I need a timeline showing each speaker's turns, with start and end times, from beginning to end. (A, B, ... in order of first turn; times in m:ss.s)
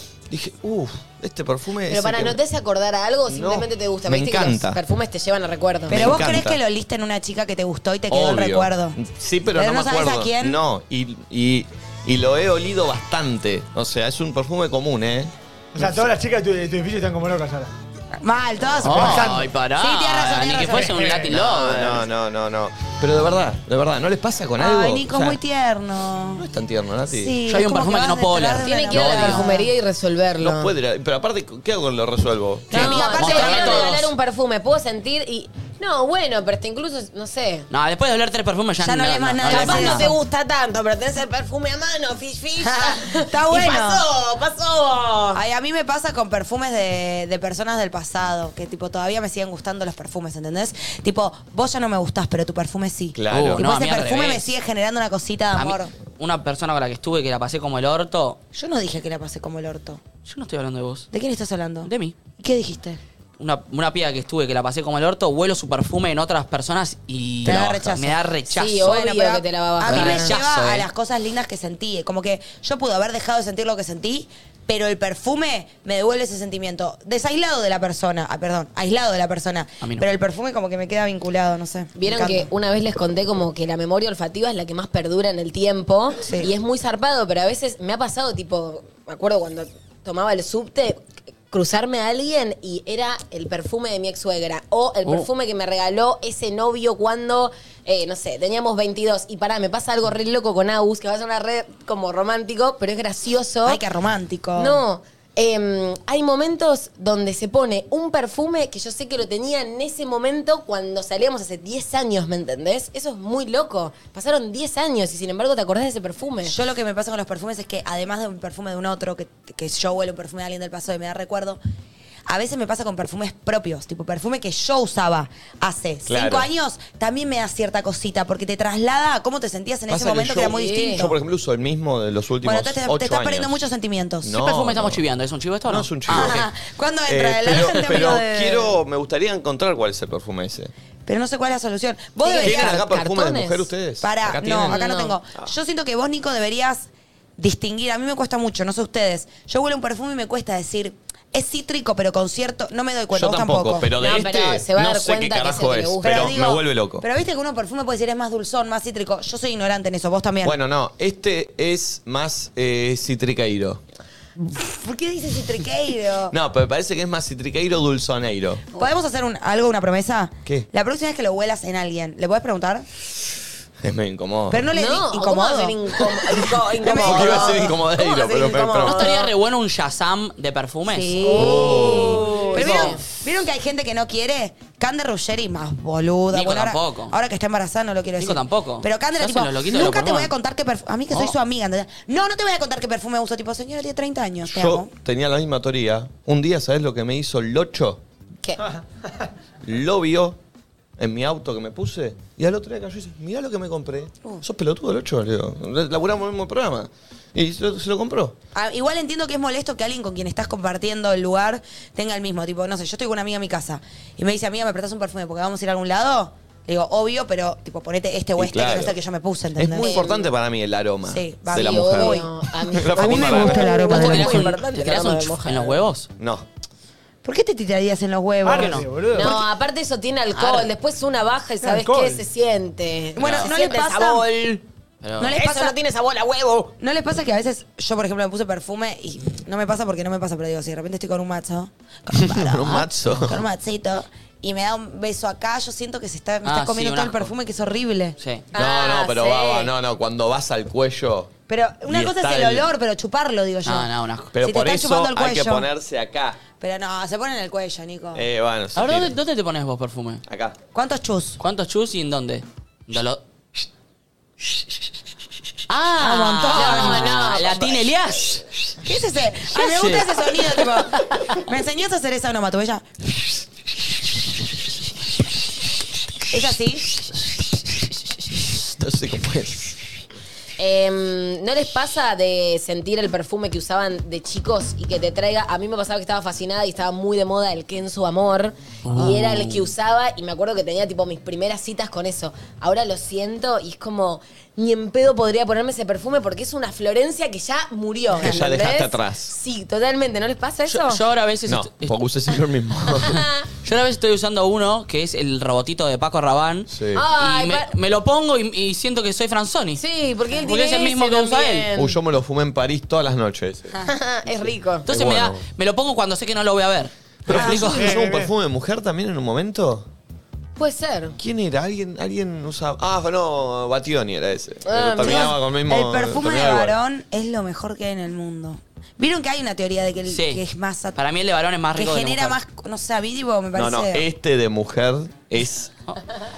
0:00.3-0:02.4 A
0:01.9-0:06.1 B
0:03.3-0:04.8 A
0:05.9-0:06.6 A
0:05.9-0:09.0 C
0:08.1-0:16.1 A
0:09.5-0:10.6 C
0:15.7-0:17.7 D
0:18.2-0:21.2 C
0:18.8-0:22.0 E
0:18.9-0:19.4 D
0:20.9-0:21.3 D
0:21.2-0:25.4 A
0:24.6-0:26.4 C
0:26.4-0:27.4 A
0:27.1-0:29.7 C
0:27.4-0:29.5 E
0:28.6-0:30.7 B
0:30.4-0:33.2 A
0:32.7-0:34.0 C
0:32.7-0:37.7 B
0:32.7-0:34.1 E
0:37.7-0:40.1 E
0:38.8-0:40.1 C
0:39.5-0:45.4 B
0:42.6-0:44.0 C
0:45.3-0:55.9 C
0:53.1-0:53.6 A
0:53.3-0:54.5 E
0:55.5-0:58.4 E
0:58.5-1:00.0 C
1:00.2-1:01.1 E
1:01.1-1:03.0 C
1:01.8-1:02.1 E
1:03.4-1:08.9 E
1:07.4-1:22.5 C
1:08.5-1:10.4 B
1:09.8-1:10.9 E
1:19.8-1:20.0 E
1:22.0-1:43.8 B
1:26.2-1:26.5 C
1:43.6-1:44.8 C
1:44.6-1:56.5 B
1:56.4-2:01.6 C
2:02.3-2:11.1 C
2:06.1-2:06.5 A
2:09.9-2:13.5 A
2:10.4-2:11.2 B
2:12.4-2:14.4 C
2:14.2-2:15.0 A
2:14.3-2:16.4 E
2:15.7-2:16.5 A
2:16.1-2:18.8 C
2:17.1-2:20.7 A
2:21.0-2:22.8 C
2:22.2-2:23.7 B
2:22.4-2:25.5 A
2:24.0-2:33.9 C
2:24.6-2:25.2 B
2:33.1-2:37.0 A
2:34.0-2:36.3 B
2:36.0-2:40.6 C
2:40.4-2:43.8 A
2:44.5-2:46.4 C
2:46.3-2:48.6 A
2:48.7-2:52.9 C
2:53.8-2:54.7 A
2:54.5-2:55.8 C
2:54.7-2:59.3 B
2:56.8-2:57.7 C
2:56.8-2:59.2 A
2:58.8-3:01.2 E
3:00.8-3:14.9 C
3:01.2-3:03.0 B
3:01.4-3:02.6 A
3:02.1-3:02.9 E
3:06.3-3:07.2 E
3:08.2-3:10.3 E
3:14.5-3:18.0 A
3:19.6-3:20.4 A
3:21.0-3:28.4 A
3:28.5-3:40.0 C
3:38.4-3:39.0 A
3:39.6-3:43.8 A
3:39.8-3:40.3 B
3:41.0-3:42.3 C
3:41.5-3:45.8 B
3:42.9-3:44.6 C
3:43.9-3:46.1 E
3:46.2-3:46.4 A
3:47.2-3:49.4 C
3:48.4-3:49.3 D
3:48.5-3:48.8 E
3:49.2-3:54.6 B
3:50.3-3:50.7 E
3:51.6-3:52.2 D
3:53.2-3:54.2 C
3:53.2-3:53.5 A
3:55.0-3:55.4 E
3:55.2-3:55.8 C
3:55.3-3:56.7 B
3:56.8-4:08.2 C
4:02.3-4:03.4 A
4:06.4-4:07.3 E
4:08.2-4:08.4 E
4:08.5-4:09.7 B
4:08.5-4:11.3 A
4:11.5-4:15.7 C
4:11.9-4:12.7 A
4:13.6-4:14.3 E
4:14.3-4:16.4 A
4:16.6-4:18.2 C
4:18.1-4:19.1 A
4:18.7-4:20.2 E
4:20.3-4:20.6 A
4:20.7-4:21.4 C
4:21.4-4:23.2 E
4:25.7-4:28.4 E
4:26.0-4:27.1 C
4:26.3-4:28.4 B
4:28.8-4:32.8 C
4:29.5-4:30.6 E
4:36.3-4:36.9 C
4:38.8-4:39.8 A
4:40.6-5:01.0 B
4:48.8-4:49.7 E
4:58.2-4:59.3 A
5:00.7-5:01.9 E
5:01.5-5:03.2 A
5:03.1-5:03.4 B
5:03.6-5:09.8 E
5:06.7-5:07.0 A
5:06.9-5:07.7 B
5:09.8-5:12.0 B
5:10.4-5:11.7 E
5:11.7-5:13.8 A
5:13.9-5:14.8 B
5:14.3-5:15.4 A
5:14.8-5:17.9 E
5:17.2-5:19.8 A
5:17.3-5:17.7 C
5:17.4-5:18.3 D
5:20.6-5:21.2 B
5:21.2-5:26.8 A
5:24.7-5:25.4 B
5:25.0-5:31.0 C
5:30.1-5:30.4 E
5:30.9-5:32.4 E
5:31.7-5:34.0 C
5:33.6-5:35.7 A